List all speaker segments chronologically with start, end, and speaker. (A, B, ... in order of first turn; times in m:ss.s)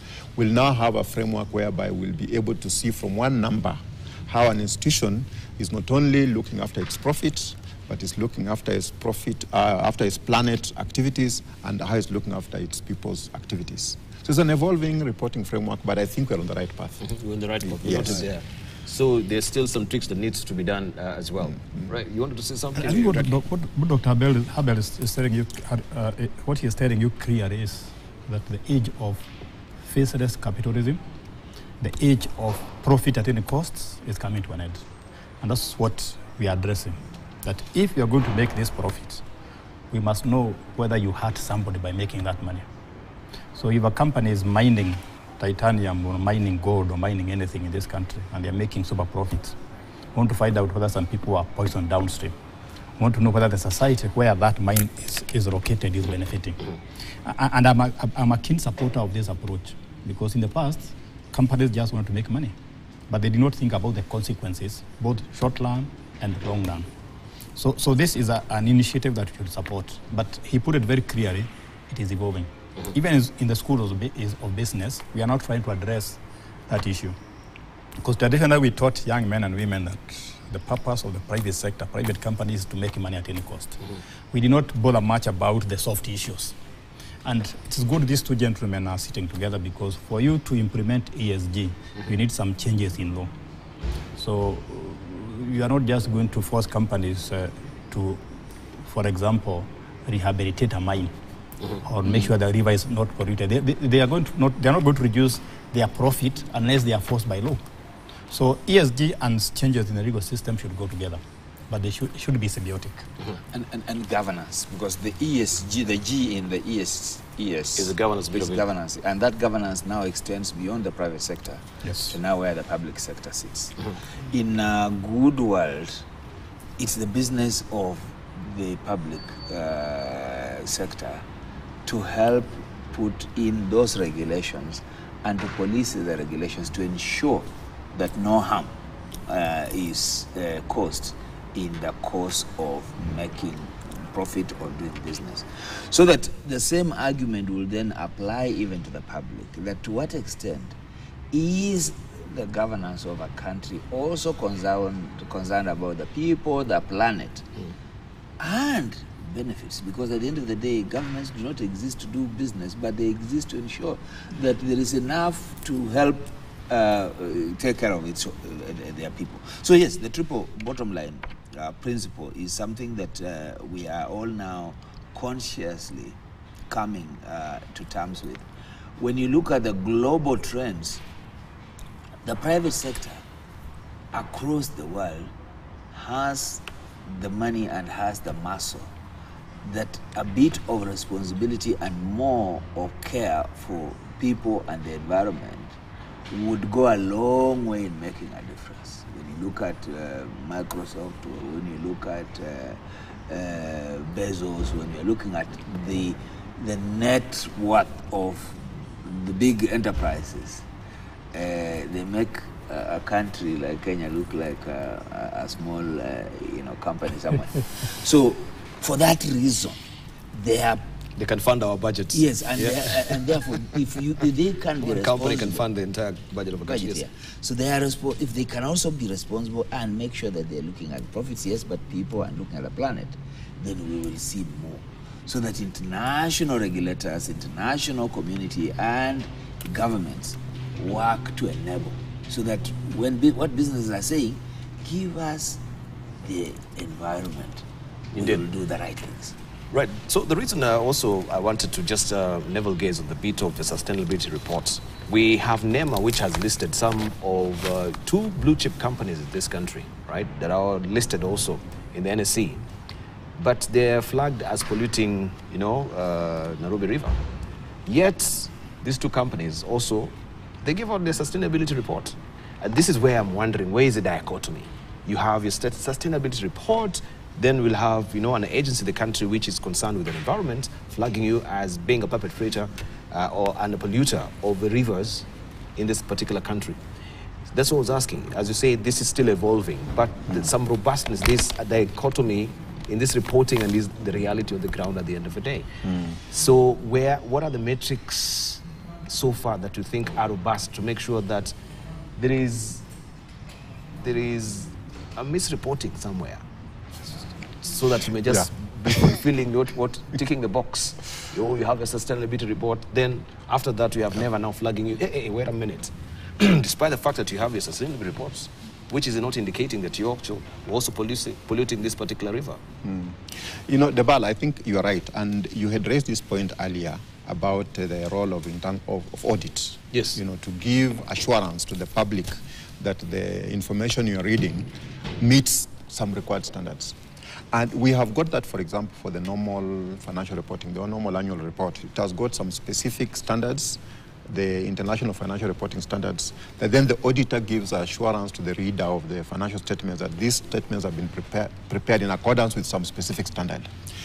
0:00.4-0:17.1 A
0:17.0-0:23.3 B
0:17.7-0:18.2 A
0:22.8-0:29.2 C
0:29.8-0:31.0 C
0:31.8-0:34.8 C
0:35.4-0:39.2 C
0:39.9-0:42.7 C
0:43.5-0:49.6 C
0:50.2-0:52.3 C
0:53.0-0:56.6 C
0:57.2-1:02.5 C
1:03.1-1:06.9 C
1:07.6-1:17.2 C
1:18.0-1:23.8 C
1:24.3-1:26.6 C
1:27.2-1:33.3 C
1:34.2-1:38.2 C
1:38.8-1:41.1 C
1:41.8-1:47.6 C
1:48.3-1:53.1 C
1:53.5-2:03.7 D
1:57.8-1:58.6 B
2:01.8-2:02.2 C
2:04.3-2:06.0 D
2:06.8-2:11.2 D
2:11.9-2:18.7 D
2:19.3-2:30.8 D
2:31.3-2:37.5 D
2:38.4-2:56.2 D
2:56.7-2:58.4 D
2:59.0-3:01.0 D
3:02.2-3:03.2 D
3:04.1-3:05.3 D
3:05.9-3:08.9 D
3:09.6-3:15.8 D
3:16.3-3:30.6 D
3:31.3-3:39.8 D
3:40.3-3:40.8 D
3:41.2-3:43.5 B
3:42.1-3:45.6 D
3:44.8-3:47.0 B
3:46.7-4:05.6 D
4:06.2-4:09.4 D
4:08.2-4:08.4 B
4:09.7-4:22.6 B
4:23.4-4:27.2 B
4:27.9-4:46.8 B
4:47.5-4:55.7 B
4:55.9-4:56.2 A
4:56.3-5:01.5 B
5:02.2-5:02.8 B
5:04.0-5:06.4 B
5:07.6-5:22.6 B
5:22.8-5:37.0 A
5:29.9-5:30.2 B
5:37.5-5:53.7 A